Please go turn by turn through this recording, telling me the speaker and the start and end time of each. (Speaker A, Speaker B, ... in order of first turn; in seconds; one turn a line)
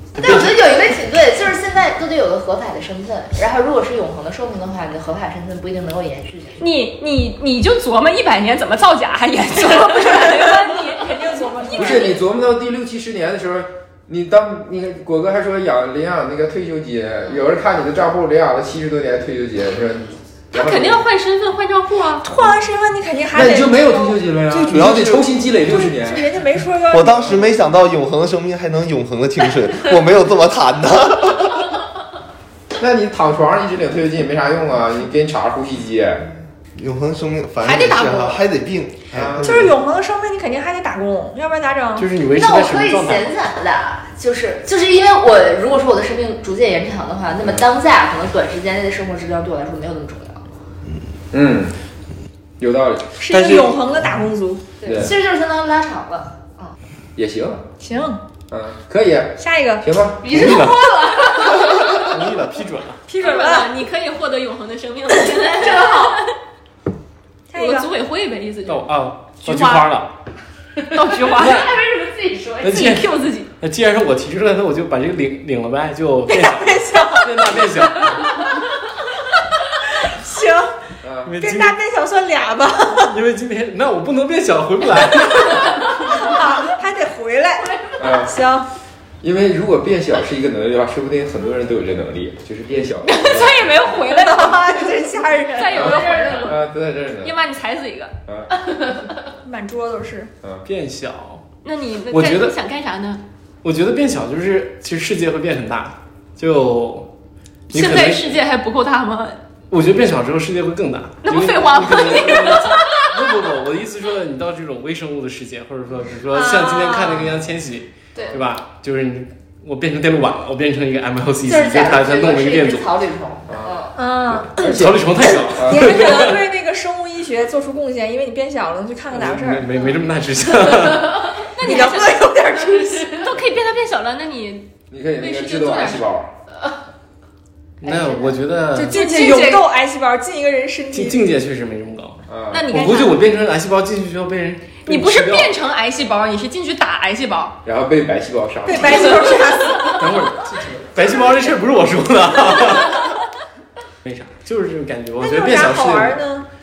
Speaker A: 0.2-6.7
Speaker B: 6.6-11.1
Speaker C: 9.6-12.2
Speaker B: 11.6-12.1
Speaker D: 11.7-21.0
Speaker B: 20.5-22.2
Speaker C: 22.2-24.2
Speaker D: 23.3-26.3
Speaker E: 24.5-25.4
Speaker C: 25.7-27.5
Speaker E: 26.9-31.6
Speaker D: 32.8-36.2
Speaker E: 36.8-39.7
Speaker B: 37.6-38.4
Speaker D: 39.1-39.5
Speaker C: 39.4-42.1
Speaker F: 42.0-43.3
Speaker A: 42.3-50.5
Speaker D: 51.3-51.8
Speaker D: 52.6-53.2
Speaker C: 53.2-54.6
Speaker F: 53.4-53.7
Speaker A: 54.8-56.8
Speaker D: 54.9-55.1
Speaker D: 57.2-57.6
Speaker C: 57.8-58.2
Speaker D: 58.5-60.6
Speaker C: 59.4-59.9
Speaker A: 60.2-62.0
Speaker F: 60.3-60.8
Speaker F: 61.7-63.0
Speaker C: 63.1-63.7
Speaker B: 63.2-66.3
Speaker A: 65.2-66.2
Speaker C: 67.5-67.9
Speaker B: 67.5-69.9
Speaker F: 68.7-70.2
Speaker F: 70.8-71.7
Speaker B: 70.9-71.7
Speaker A: 71.2-73.0
Speaker F: 72.6-78.3
Speaker B: 72.7-73.5
Speaker C: 76.3-77.5
Speaker C: 80.0-80.7
Speaker D: 81.0-81.3
Speaker F: 81.2-81.8
Speaker C: 81.4-83.2
Speaker F: 83.0-86.1
Speaker C: 86.0-88.7
Speaker D: 88.0-88.3
Speaker D: 89.2-93.8
Speaker B: 93.0-96.6
Speaker C: 94.1-96.5
Speaker D: 95.8-97.4
Speaker B: 97.2-98.1
Speaker C: 99.4-100.3
Speaker F: 100.7-101.4
Speaker B: 101.6-103.2
Speaker F: 102.1-102.6
Speaker F: 103.6-107.1
Speaker F: 107.7-108.3
Speaker B: 107.7-109.4
Speaker F: 109.7-122.9
Speaker B: 111.2-113.1
Speaker C: 116.3-117.3
Speaker A: 118.2-118.4
Speaker A: 121.4-124.0
Speaker D: 123.5-126.0
Speaker C: 124.0-124.7
Speaker F: 124.6-126.5
Speaker C: 125.5-129.7
Speaker F: 129.1-131.3
Speaker B: 131.4-136.1
Speaker C: 131.6-133.2
Speaker D: 134.9-136.3
Speaker F: 137.8-139.3
Speaker A: 137.8-138.4
Speaker C: 138.7-141.2
Speaker B: 138.9-139.7
Speaker F: 140.9-145.5
Speaker D: 142.3-142.7
Speaker B: 142.5-143.2
Speaker B: 144.8-147.6
Speaker D: 147.7-149.3
Speaker C: 148.7-150.0
Speaker B: 148.9-149.9
Speaker F: 150.0-153.2
Speaker F: 154.0-156.2
Speaker C: 155.2-156.5